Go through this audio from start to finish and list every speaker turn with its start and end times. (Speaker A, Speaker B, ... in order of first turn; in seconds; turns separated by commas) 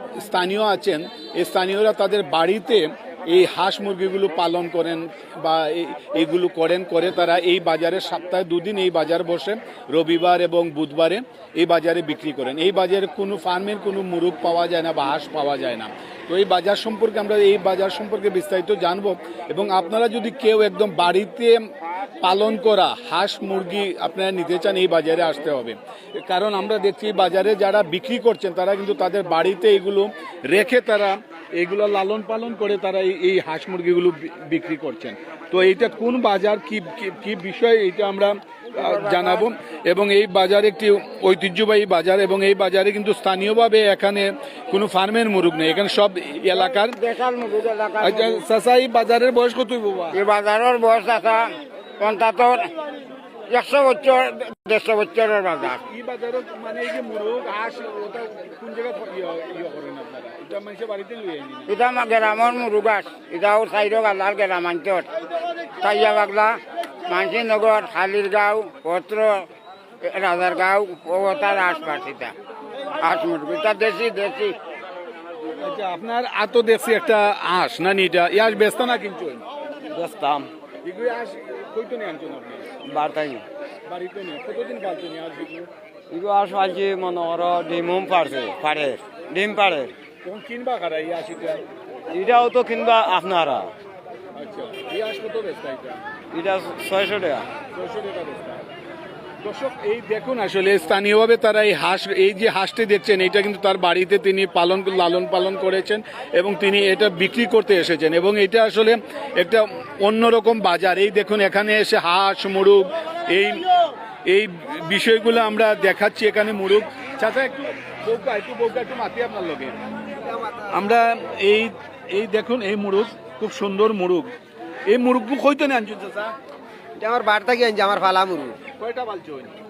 Speaker A: 0.2-21.6, Speaker A: 22.2-47.0, Speaker B: 38.8-39.5, Speaker B: 46.5-48.4, Speaker A: 48.0-50.2, Speaker B: 50.1-52.7, Speaker B: 53.5-55.8, Speaker A: 55.6-61.7, Speaker B: 61.7-65.1, Speaker B: 65.8-69.5, Speaker B: 70.0-72.3, Speaker B: 73.0-74.6, Speaker A: 75.6-79.4, Speaker C: 80.0-80.4, Speaker A: 80.8-82.7, Speaker C: 83.0-83.3, Speaker A: 83.9-85.7, Speaker C: 86.1-89.8, Speaker A: 90.2-91.6, Speaker C: 92.2-93.5, Speaker A: 94.4-96.0, Speaker C: 96.3-97.2, Speaker A: 97.7-98.6, Speaker A: 99.4-113.6, Speaker A: 114.3-119.8, Speaker D: 120.3-120.6, Speaker A: 120.7-124.3, Speaker A: 124.9-126.3, Speaker D: 127.0-128.6, Speaker A: 128.8-129.5